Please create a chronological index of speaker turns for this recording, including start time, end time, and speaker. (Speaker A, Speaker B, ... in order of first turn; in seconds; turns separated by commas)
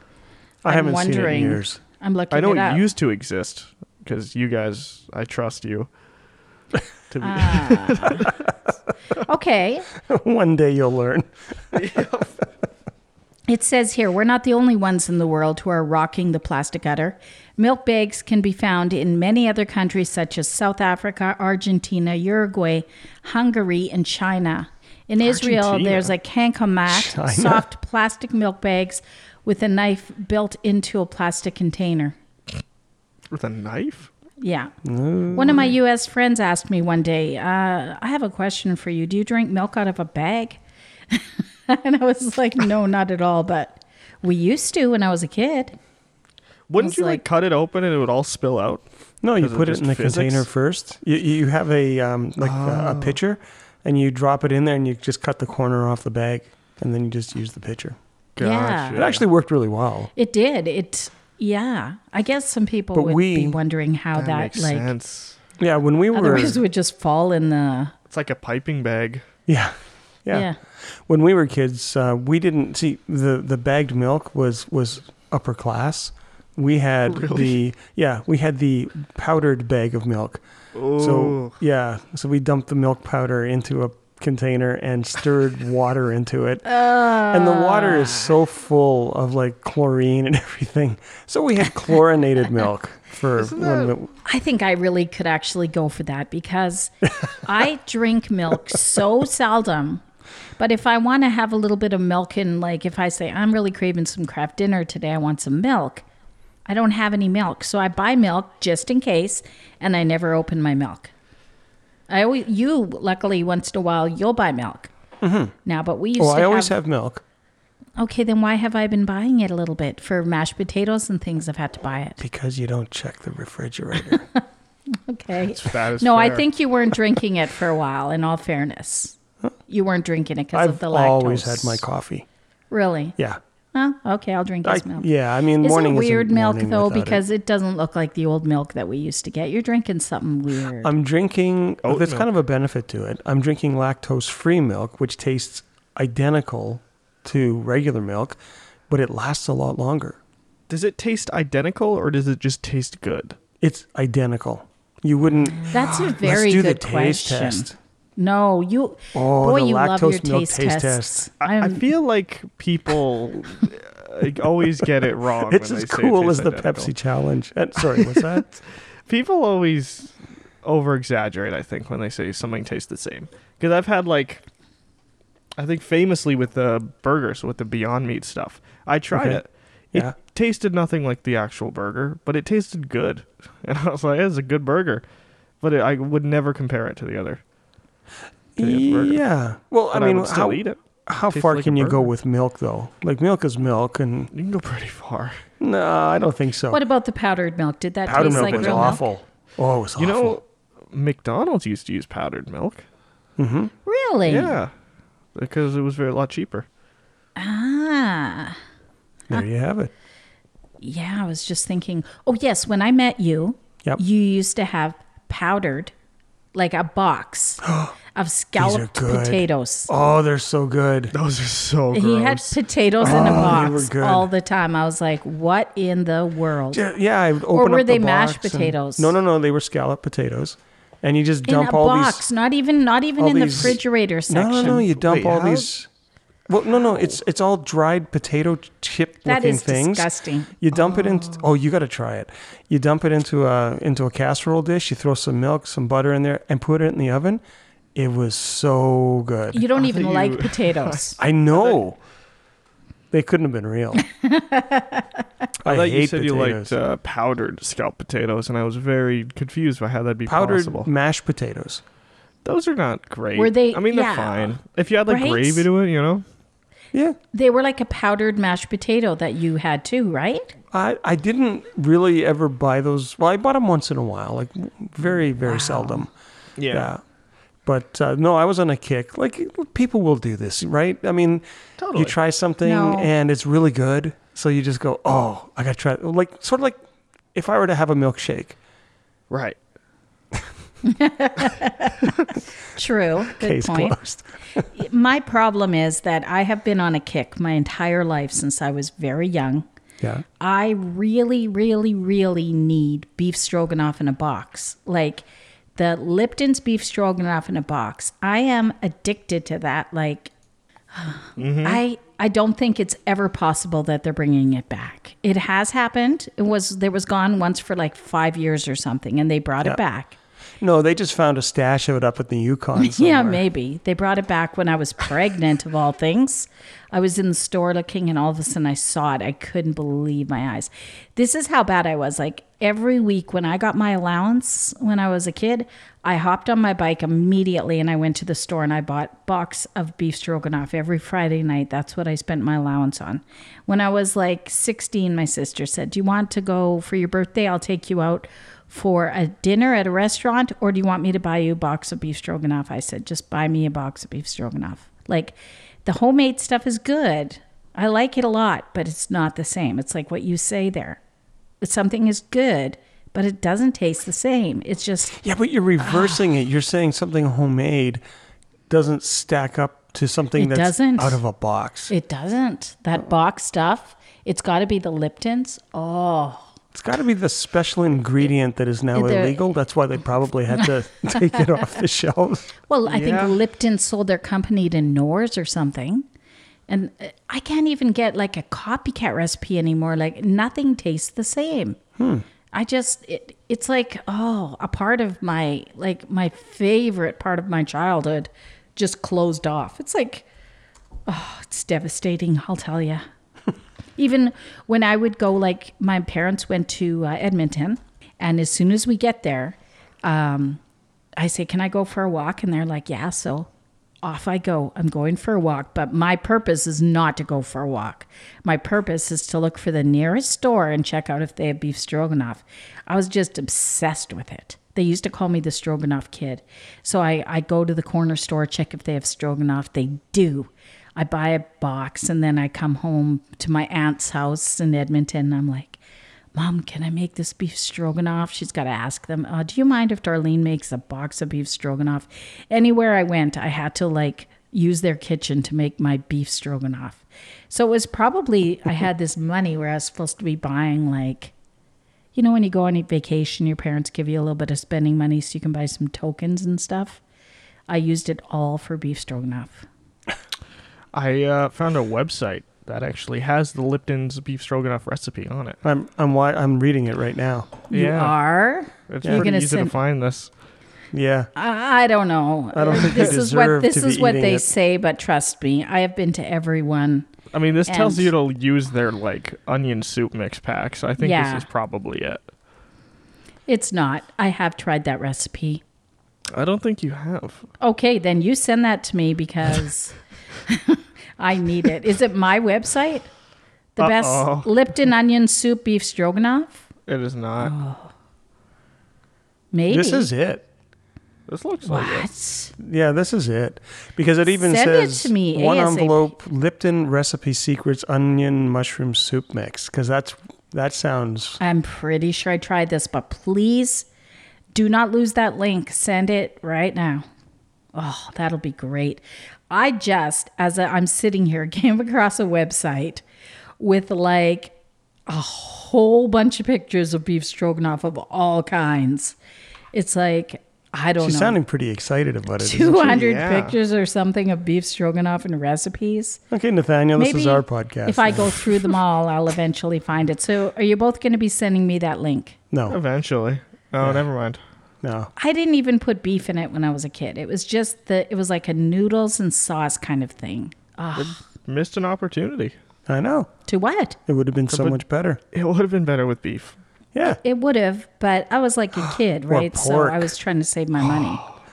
Speaker A: 0.6-2.9, Speaker B: 0.7-1.8, Speaker C: 2.3-5.9, Speaker C: 7.1-8.3, Speaker A: 7.2-8.3, Speaker A: 9.2-9.9, Speaker B: 10.0-11.8, Speaker C: 11.7-12.4, Speaker A: 13.5-32.2, Speaker C: 25.2-26.1, Speaker B: 26.9-27.7, Speaker C: 33.3-34.1, Speaker A: 34.4-34.7, Speaker B: 34.8-35.7, Speaker A: 35.3-45.8, Speaker C: 46.7-48.8, Speaker A: 46.8-47.2, Speaker B: 49.2-58.0, Speaker C: 49.4-50.5, Speaker C: 52.4-53.2, Speaker C: 58.4-59.2, Speaker A: 58.4-59.1, Speaker B: 58.9-60.1, Speaker A: 60.1-64.9, Speaker B: 62.9-63.6, Speaker C: 64.1-65.4, Speaker B: 65.6-66.6, Speaker A: 66.1-67.9, Speaker C: 68.1-69.2, Speaker B: 69.5-70.5, Speaker A: 70.3-70.6, Speaker B: 71.1-80.4, Speaker C: 77.1-77.6, Speaker C: 80.8-81.6, Speaker B: 81.0-94.1, Speaker A: 86.7-88.4, Speaker C: 93.4-94.0, Speaker A: 94.2-100.0, Speaker A: 100.6-106.0, Speaker A: 106.7-111.1, Speaker A: 112.1-114.9, Speaker B: 115.2-115.5, Speaker A: 115.7-116.7, Speaker B: 116.2-117.2, Speaker A: 118.0-122.2, Speaker B: 122.2-124.3, Speaker A: 124.1-129.2, Speaker C: 125.4-126.5, Speaker A: 129.7-131.8, Speaker B: 130.5-132.3, Speaker A: 132.7-133.2, Speaker A: 133.7-135.1, Speaker B: 134.6-137.2, Speaker A: 135.6-140.9, Speaker B: 140.8-148.4, Speaker C: 141.8-142.3, Speaker B: 148.9-150.2, Speaker C: 150.7-153.4, Speaker B: 153.6-157.8, Speaker A: 155.7-161.9, Speaker B: 159.1-161.2, Speaker C: 161.4-166.9, Speaker B: 165.5-168.6, Speaker C: 168.0-168.4, Speaker C: 169.1-174.4, Speaker C: 175.6-185.0, Speaker B: 179.1-179.4, Speaker C: 185.6-187.4, Speaker B: 188.6-194.3, Speaker C: 188.6-189.2, Speaker C: 189.9-192.1, Speaker C: 194.3-195.4, Speaker B: 195.6-196.8, Speaker A: 196.7-199.0, Speaker B: 198.1-200.4, Speaker C: 198.1-199.0, Speaker C: 200.0-202.8, Speaker B: 203.4-203.7, Speaker A: 203.8-204.6, Speaker C: 204.3-204.7, Speaker C: 205.3-206.7, Speaker A: 207.4-208.6, Speaker B: 209.3-209.9, Speaker A: 210.8-215.9, Speaker A: 216.5-220.1, Speaker B: 217.6-218.0, Speaker B: 218.6-221.2, Speaker C: 221.1-223.6, Speaker A: 221.9-226.8, Speaker B: 223.0-224.3, Speaker B: 226.7-232.2, Speaker A: 227.5-229.1, Speaker A: 231.5-234.9, Speaker B: 233.2-235.9, Speaker C: 234.6-235.7, Speaker B: 236.5-247.4, Speaker A: 239.2-240.6, Speaker C: 241.0-241.4, Speaker B: 247.9-249.7, Speaker A: 249.5-251.2, Speaker C: 249.8-251.0, Speaker B: 251.2-252.0, Speaker B: 253.1-254.1, Speaker A: 254.0-255.2, Speaker B: 255.6-256.8, Speaker C: 255.6-260.9, Speaker B: 260.3-261.8, Speaker C: 262.4-266.2, Speaker A: 263.4-265.7, Speaker A: 267.3-270.5, Speaker B: 270.7-276.1, Speaker A: 275.4-276.1, Speaker C: 276.6-276.9, Speaker B: 276.7-277.0, Speaker B: 277.6-286.8, Speaker C: 281.8-282.1, Speaker A: 282.6-283.1, Speaker B: 287.3-288.6, Speaker C: 289.3-289.6, Speaker A: 290.8-294.0, Speaker B: 293.3-294.6, Speaker A: 294.7-299.7, Speaker A: 300.4-305.2, Speaker A: 305.8-310.3, Speaker A: 310.9-320.2, Speaker C: 311.4-311.8, Speaker B: 320.6-323.4, Speaker A: 322.8-361.0, Speaker A: 361.6-365.2, Speaker B: 365.2-368.0, Speaker A: 365.8-366.2, Speaker B: 368.7-371.9, Speaker A: 370.4-371.2, Speaker A: 371.9-376.5, Speaker B: 376.7-382.5, Speaker A: 378.9-379.4, Speaker A: 381.1-381.4, Speaker A: 382.7-386.1, Speaker C: 382.9-383.3, Speaker A: 386.7-391.8, Speaker B: 392.0-392.3, Speaker A: 392.5-400.3, Speaker A: 401.1-403.1, Speaker A: 404.0-410.6, Speaker A: 411.2-413.5, Speaker A: 414.0-435.8, Speaker A: 436.4-451.3, Speaker A: 452.1-457.0, Speaker A: 457.7-459.7, Speaker C: 460.9-465.6, Speaker B: 465.6-467.6, Speaker A: 467.7-469.8, Speaker C: 467.7-468.2, Speaker C: 468.9-470.3, Speaker B: 470.9-471.3, Speaker A: 471.4-477.1, Speaker B: 472.5-474.5, Speaker C: 477.3-482.2, Speaker A: 477.7-478.1, Speaker A: 481.0-481.5, Speaker A: 483.5-485.6, Speaker C: 486.3-487.5, Speaker A: 487.6-493.1, Speaker A: 493.8-496.6, Speaker C: 493.8-494.5, Speaker C: 496.9-497.5, Speaker A: 497.4-497.9, Speaker A: 499.5-500.1, Speaker B: 499.7-500.4, Speaker C: 501.3-502.1, Speaker A: 501.6-502.5, Speaker B: 502.6-511.4, Speaker A: 504.3-506.1, Speaker A: 511.4-513.9, Speaker A: 514.5-517.0, Speaker A: 517.8-523.0, Speaker A: 523.6-524.5, Speaker A: 525.1-529.2, Speaker A: 529.7-531.4, Speaker B: 531.0-533.1, Speaker A: 532.4-536.2, Speaker C: 532.8-533.6, Speaker B: 536.3-538.7, Speaker A: 537.0-542.4, Speaker B: 542.5-542.8, Speaker C: 542.7-544.4, Speaker B: 544.8-545.1, Speaker A: 545.2-551.2, Speaker C: 551.0-552.5, Speaker B: 552.9-553.3, Speaker A: 553.5-554.0, Speaker B: 554.1-555.2, Speaker C: 554.5-554.8, Speaker C: 555.3-556.6, Speaker B: 556.9-557.2, Speaker A: 557.0-561.2, Speaker B: 559.3-560.1